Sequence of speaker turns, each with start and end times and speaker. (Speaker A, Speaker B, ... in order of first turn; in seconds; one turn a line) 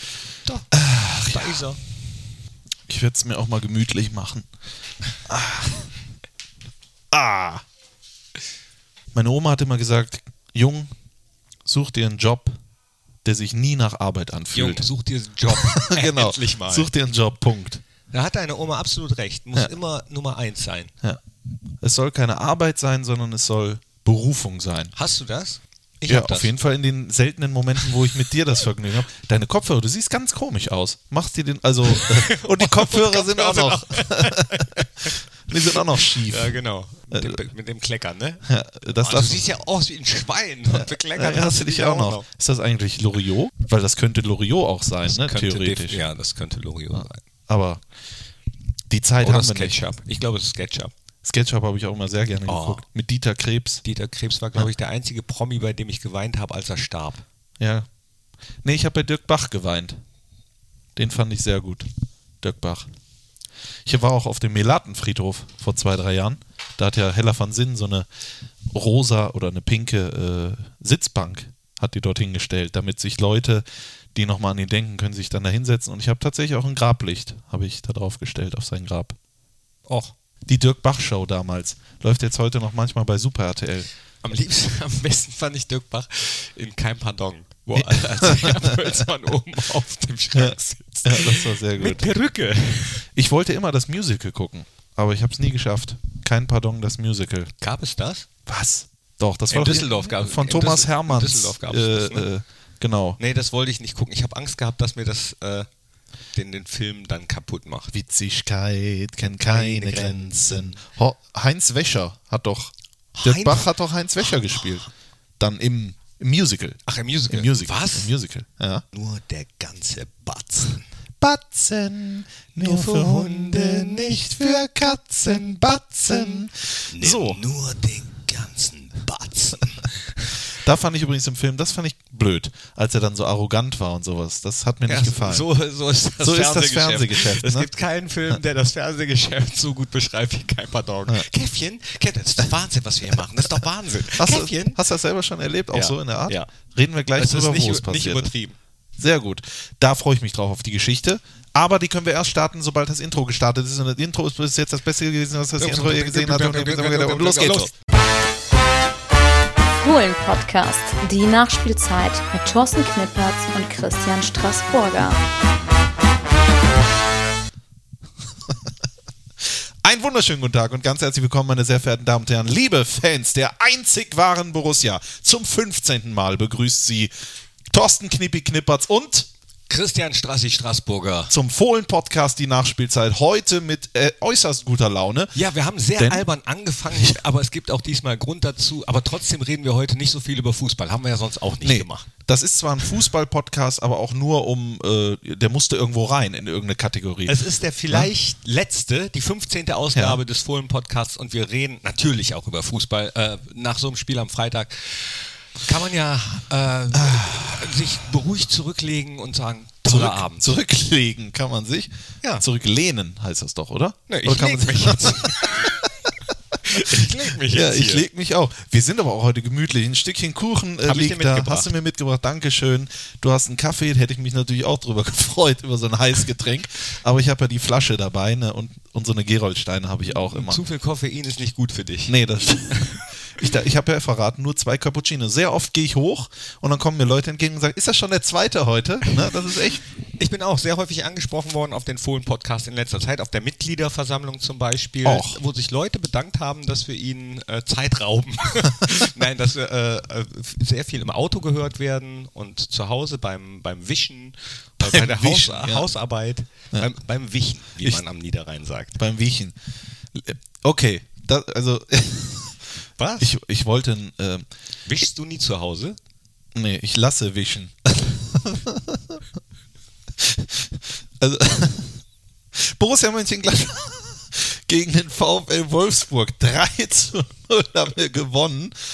Speaker A: 0.7-1.8
Speaker B: 1.2-1.8
Speaker A: 2.9-4.5
Speaker A: 5.3-5.9
Speaker A: 7.1-7.6
Speaker A: 9.1-10.9
Speaker A: 11.7-12.6
Speaker A: 13.2-14.9
Speaker B: 14.5-16.9
Speaker A: 15.5-17.8
Speaker B: 18.1-20.9
Speaker A: 21.8-24.9
Speaker B: 24.9-26.6
Speaker A: 26.1-34.6
Speaker B: 31.9-38.4
Speaker A: 35.5-36.6
Speaker A: 37.1-37.4
Speaker A: 38.5-39.4
Speaker B: 39.0-42.3
Speaker A: 40.7-46.0
Speaker B: 45.1-47.2
Speaker A: 47.0-47.8
Speaker A: 48.9-49.8
Speaker B: 49.2-50.9
Speaker A: 51.2-53.8
Speaker B: 52.5-52.8
Speaker B: 53.9-57.2
Speaker A: 57.6-57.9
Speaker A: 58.6-60.0
Speaker A: 61.0-61.9
Speaker A: 62.4-62.9
Speaker A: 63.9-68.1
Speaker A: 68.7-79.2
Speaker B: 79.9-80.1
Speaker A: 80.5-83.9
Speaker B: 84.2-93.0
Speaker A: 87.7-88.9
Speaker A: 90.3-92.0
Speaker A: 93.1-97.5
Speaker B: 97.6-98.3
Speaker A: 98.5-103.2
Speaker B: 99.5-102.3
Speaker B: 103.2-105.7
Speaker B: 106.3-107.9
Speaker A: 107.9-114.9
Speaker B: 109.3-110.8
Speaker B: 113.2-113.7
Speaker B: 114.3-114.6
Speaker A: 115.4-118.8
Speaker B: 116.9-118.1
Speaker B: 118.9-120.9
Speaker A: 121.2-127.4
Speaker B: 122.6-124.3
Speaker B: 126.9-130.2
Speaker A: 130.6-135.5
Speaker B: 134.9-144.8
Speaker A: 136.2-137.7
Speaker A: 144.1-148.3
Speaker B: 145.7-146.5
Speaker B: 147.2-148.6
Speaker A: 149.0-157.7
Speaker B: 155.6-157.7
Speaker C: 159.8-165.2
Speaker A: 169.4-177.1
Speaker A: 177.7-179.3
Speaker B: 179.7-181.3
Speaker A: 181.3-185.3
Speaker B: 185.3-192.1
Speaker A: 186.0-186.3
Speaker A: 186.9-187.2
Speaker A: 191.6-198.1
Speaker B: 197.3-210.5
Speaker A: 199.9-200.2
Speaker A: 206.9-207.8
Speaker A: 209.9-216.1
Speaker B: 214.1-215.7
Speaker B: 216.6-218.0
Speaker A: 216.8-230.6
Speaker B: 220.8-221.7
Speaker B: 230.2-232.2
Speaker A: 232.1-239.8
Speaker B: 232.7-233.0
Speaker B: 239.1-239.3
Speaker B: 240.2-259.0
Speaker A: 245.0-245.4
Speaker A: 254.8-255.9
Speaker A: 259.0-259.6
Speaker A: 260.1-262.6
Speaker B: 263.0-263.3
Speaker A: 263.2-264.5
Speaker B: 264.9-266.0
Speaker A: 266.6-269.2
Speaker A: 270.2-272.0
Speaker A: 272.6-278.7